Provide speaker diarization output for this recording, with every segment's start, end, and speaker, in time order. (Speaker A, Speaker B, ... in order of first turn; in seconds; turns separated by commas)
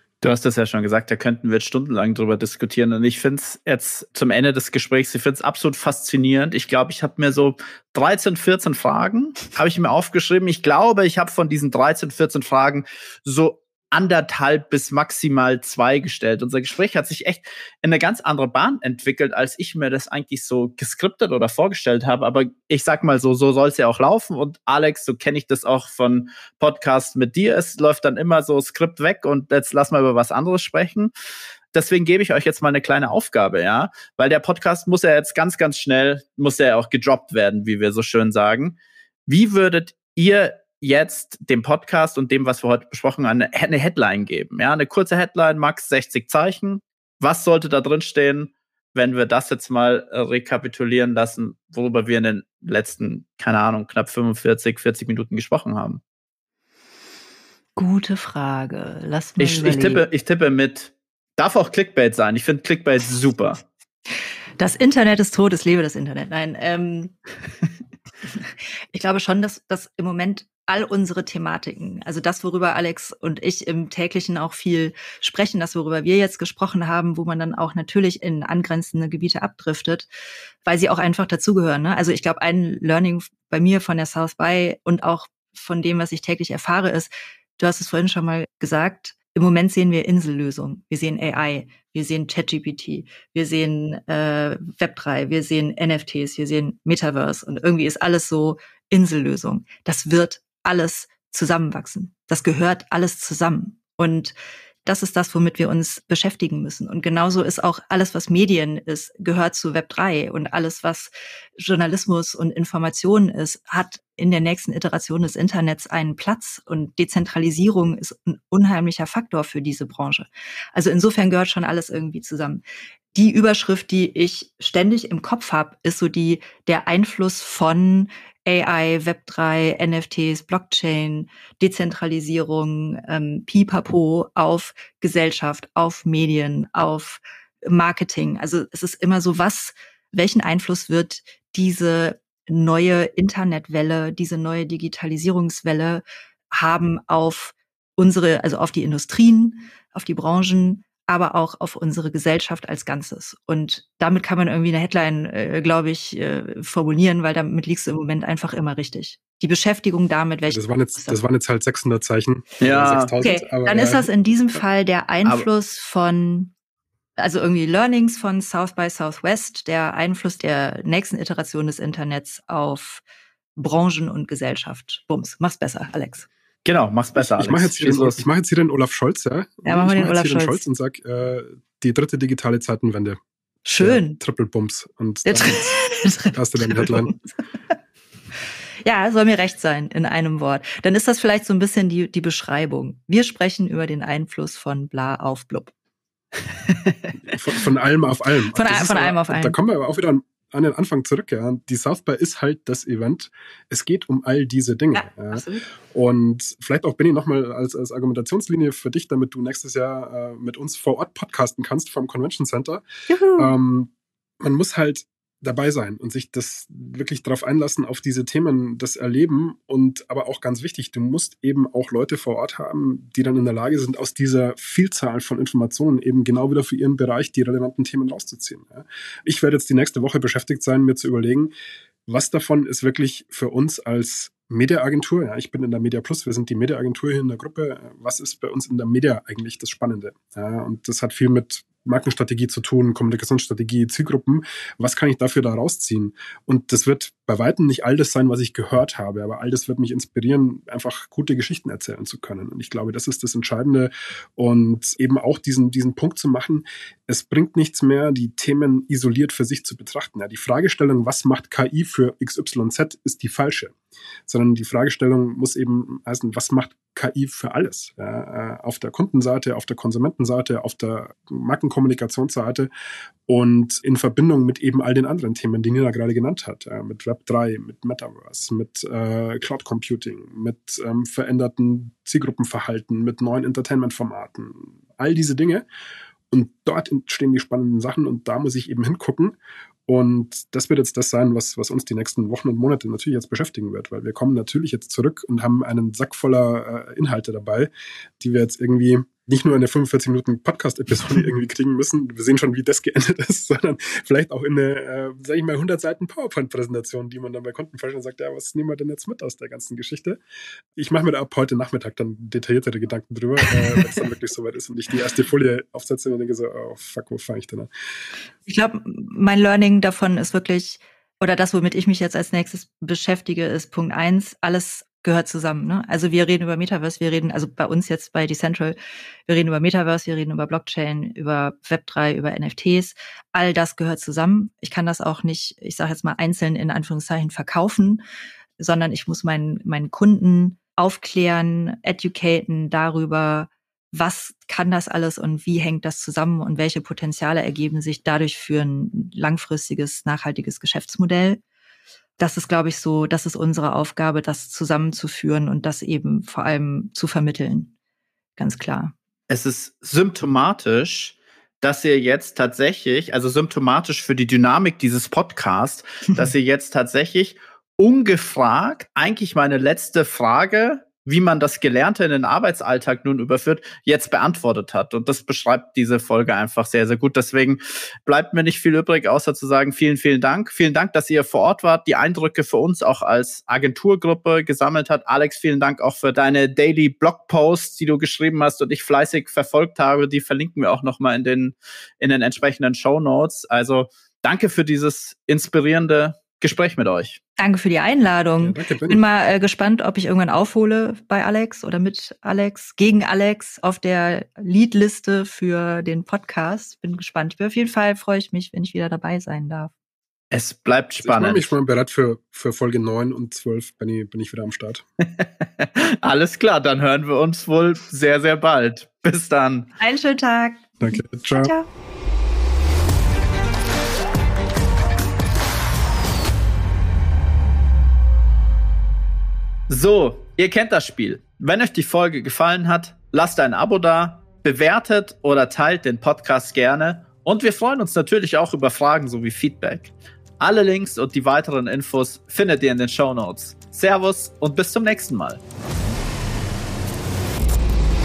Speaker A: 0.2-31.1, Speaker A: 31.7-38.8, Speaker A: 39.3-56.0, Speaker B: 57.8-60.0, Speaker A: 59.4-63.6, Speaker B: 64.6-67.2, Speaker B: 68.9-80.1, Speaker B: 80.7-122.6, Speaker B: 123.1-161.2, Speaker C: 160.5-164.1, Speaker A: 162.6-163.1, Speaker B: 163.2-166.5, Speaker B: 167.2-173.0, Speaker B: 173.6-176.3, Speaker A: 176.7-178.3, Speaker C: 177.2-183.2, Speaker B: 179.7-180.7, Speaker B: 183.7-184.2, Speaker C: 183.8-185.8, Speaker B: 185.3-187.1, Speaker C: 186.3-187.2, Speaker B: 188.8-195.7, Speaker C: 197.3-212.8, Speaker B: 198.6-199.6, Speaker B: 204.9-205.6, Speaker B: 213.1-213.5, Speaker C: 213.4-231.5, Speaker C: 232.1-263.7, Speaker C: 264.3-272.7, Speaker C: 273.3-285.7, Speaker C: 286.3-289.4, Speaker C: 289.9-310.2, Speaker C: 310.8-317.7, Speaker B: 318.5-338.0, Speaker B: 338.6-351.4, Speaker B: 352.2-357.7, Speaker B: 358.4-358.9, Speaker A: 359.3-397.2, Speaker B: 397.4-409.7, Speaker C: 398.4-399.0, Speaker A: 410.3-411.5, Speaker C: 411.0-414.8, Speaker A: 415.0-419.7, Speaker B: 419.8-421.7, Speaker C: 420.8-421.5, Speaker A: 429.7-445.4